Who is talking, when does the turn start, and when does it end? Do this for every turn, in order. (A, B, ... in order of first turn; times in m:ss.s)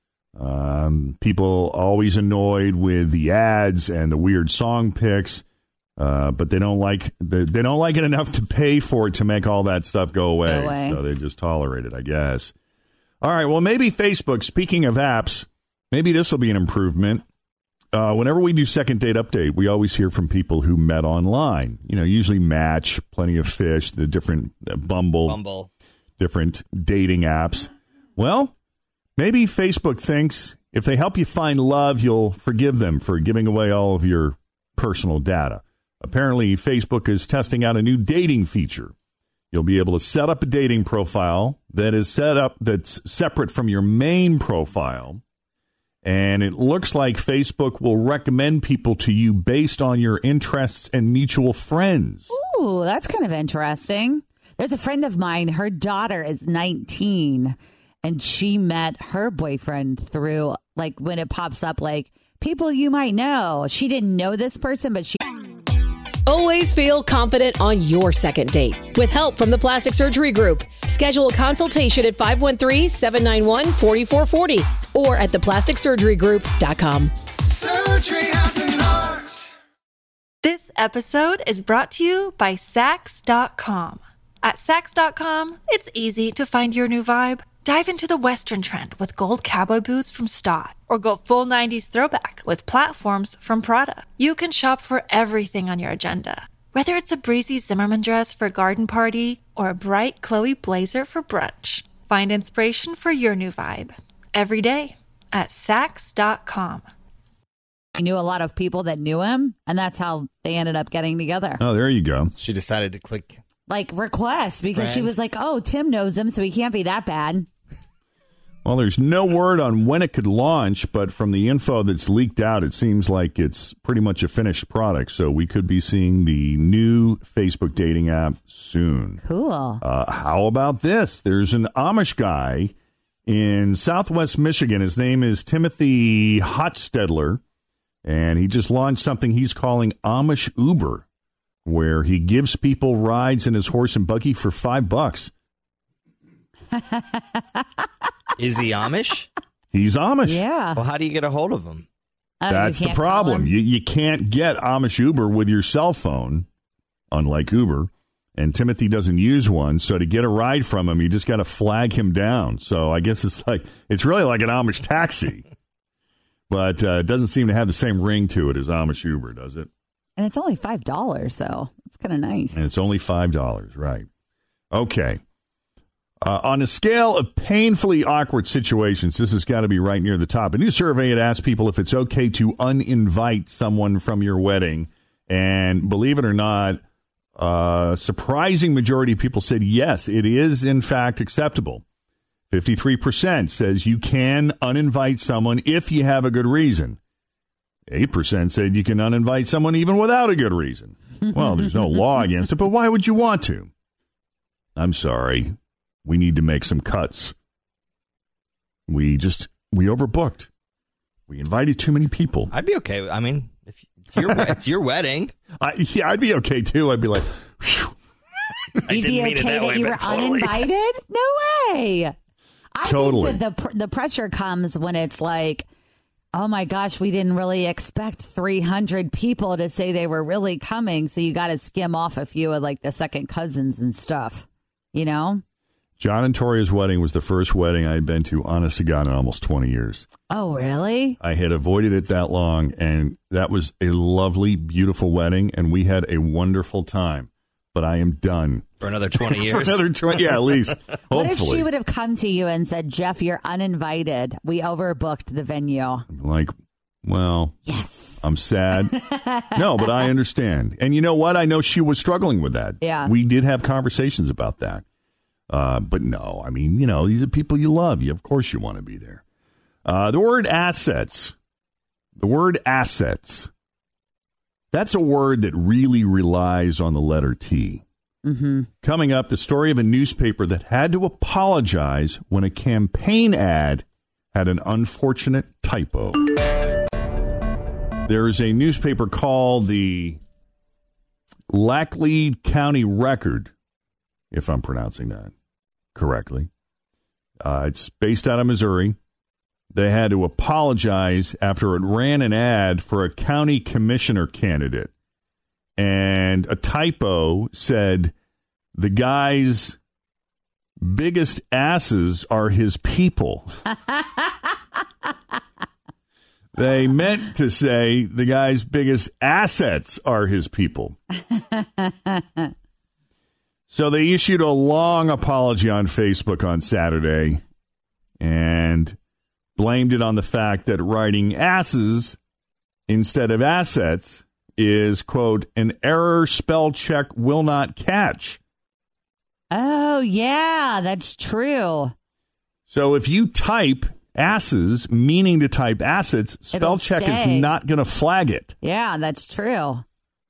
0:00.4-0:05.4 A
0:06.0-0:12.5 A
0:10.4-0:11.0 B
0:13.2-0:17.2 A
0:17.9-0:25.4 A
0:25.2-0:25.7 C
0:26.2-0:28.5 A
0:29.2-0:38.9 A
0:39.5-0:45.2 A
0:46.0-0:52.3 A
0:52.3-1:05.2 B
1:06.2-1:19.4 D
1:20.4-1:46.8 E
1:48.0-1:51.6 B
1:51.6-1:52.3 A
1:52.4-1:53.4 C
1:53.7-1:57.5 B
1:54.7-1:55.1 C
1:58.6-2:09.2 A
2:09.2-2:09.8 B
2:09.8-2:12.7 A
2:13.3-2:17.4 A
2:18.0-2:21.0 A
2:21.6-2:25.3 A
2:26.7-2:27.4 B
2:28.4-2:29.3 C
2:29.7-2:30.4 A
2:30.2-2:30.8 B
2:30.8-2:31.8 C
2:32.4-2:33.5 B
2:32.5-2:36.5 A
2:37.1-2:45.4 A
2:46.5-2:49.7 A
2:50.2-2:52.6 B
2:52.5-2:54.1 A
2:54.7-2:55.2 A
2:56.2-3:06.8 A
3:07.4-3:11.8 A
3:12.5-3:17.0 A
3:17.9-3:23.7 A
3:24.8-3:27.3 A
3:28.9-3:30.5 A
3:31.3-3:32.5 A
3:32.5-3:35.3 C
3:35.6-3:37.9 A
3:38.9-3:40.6 C
3:39.0-3:42.1 B
3:42.7-3:45.6 B
3:42.8-3:43.4 A
3:46.3-3:55.4 B
3:56.0-4:00.0 A
4:00.3-4:01.2 B
4:01.2-4:11.7 A
4:08.8-4:10.3 C
4:11.1-4:16.0 B
4:16.1-4:16.5 A
4:17.0-4:17.7 A
4:17.7-4:18.2 B
4:18.2-4:18.9 A
4:18.9-4:19.5 B
4:19.5-4:24.8 A
4:22.8-4:23.1 B
4:25.5-4:29.2 A
4:29.8-4:31.3 A
4:32.2-4:33.5 A
4:34.7-4:37.8 A
4:38.2-4:38.7 B
4:38.8-4:46.2 A
4:48.1-4:50.2 A
4:51.5-4:53.5 A
4:54.3-4:55.3 A
4:55.9-4:56.5 A
4:57.4-4:59.0 A
4:59.7-5:04.9 A
5:05.8-5:08.1 A
5:08.7-5:09.8 A
5:10.8-5:13.5 A
5:16.5-5:21.0 A
5:21.4-5:22.2 B
5:23.7-5:27.4 A
5:28.2-5:29.0 A
5:29.6-5:32.2 A
5:32.9-5:38.4 A
5:39.5-5:41.9 B
5:42.7-5:48.5 A
5:46.5-5:47.5 B
5:48.6-5:49.8 B